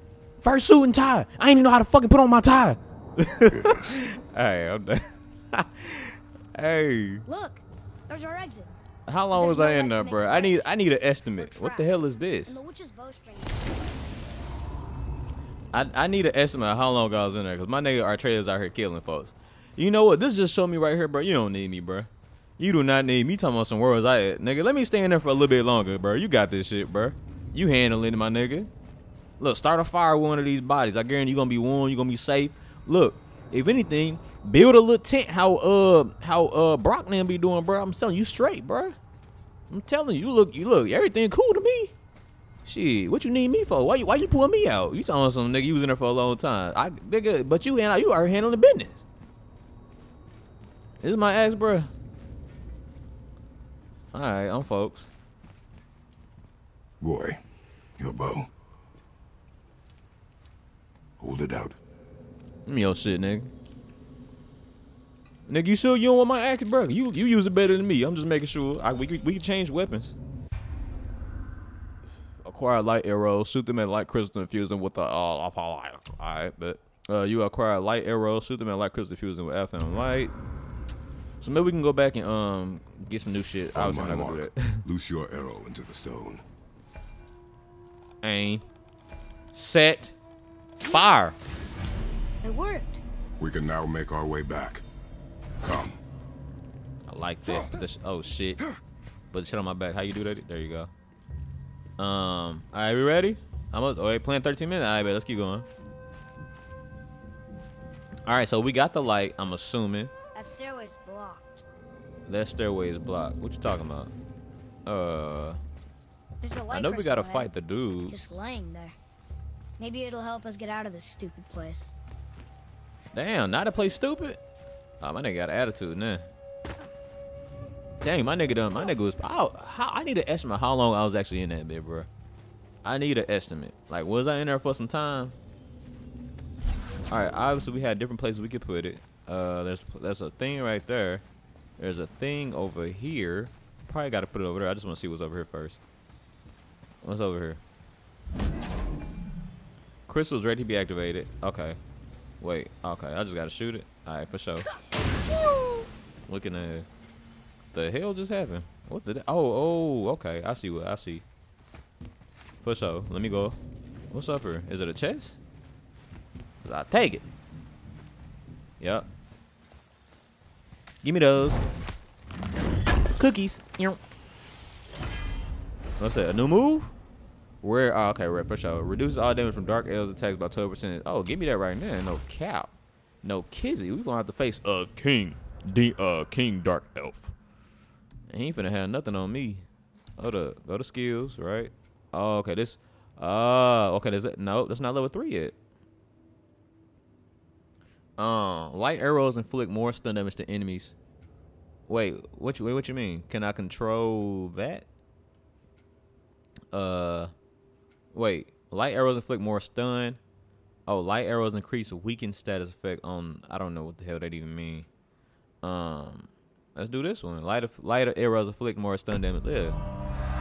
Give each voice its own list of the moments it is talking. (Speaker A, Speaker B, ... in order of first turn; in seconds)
Speaker A: 0.4-7.2, 9.1-12.6, 15.7-28.7, 29.4-39.0, 39.7-41.9, 42.6-49.0, 51.0-51.9, 54.1-55.1, 62.7-63.5, 65.5-70.2, 72.4-80.3, 81.4-84.8, 88.2-88.6, 89.5-90.2, 90.8-91.4, 97.1-98.6, 99.3-100.9, 102.0-105.7, 108.3-110.1, 112.3-114.1, 114.8-115.6, 116.7-118.2, 123.1-124.4, 125.0-126.2, 128.0-132.1, 132.8-135.3, 137.1-141.2, 141.8-145.8, 147.0-147.6, 150.1-151.8, 152.4-154.7, 156.3-156.9, 157.7-161.2, 162.6-163.6, 164.1-165.4, 166.6-167.3, 168.8-169.1, 171.0-171.7, 173.2-174.0, 176.0-176.9, 177.6-187.3, 188.3-189.6, 190.2-195.6, 198.2-200.9, 201.9-204.9, 206.7-207.3, 208.1-210.2, 210.9-214.9, 215.6-219.8
Speaker B: 3.5-3.9, 57.0-57.4, 58.0-58.5, 61.2-61.8, 83.7-86.4, 93.4-94.8, 95.6-96.0
Speaker C: 7.3-8.8, 9.3-13.9, 92.4-93.0, 110.3-111.6, 116.4-117.5, 118.1-119.0, 119.8-121.9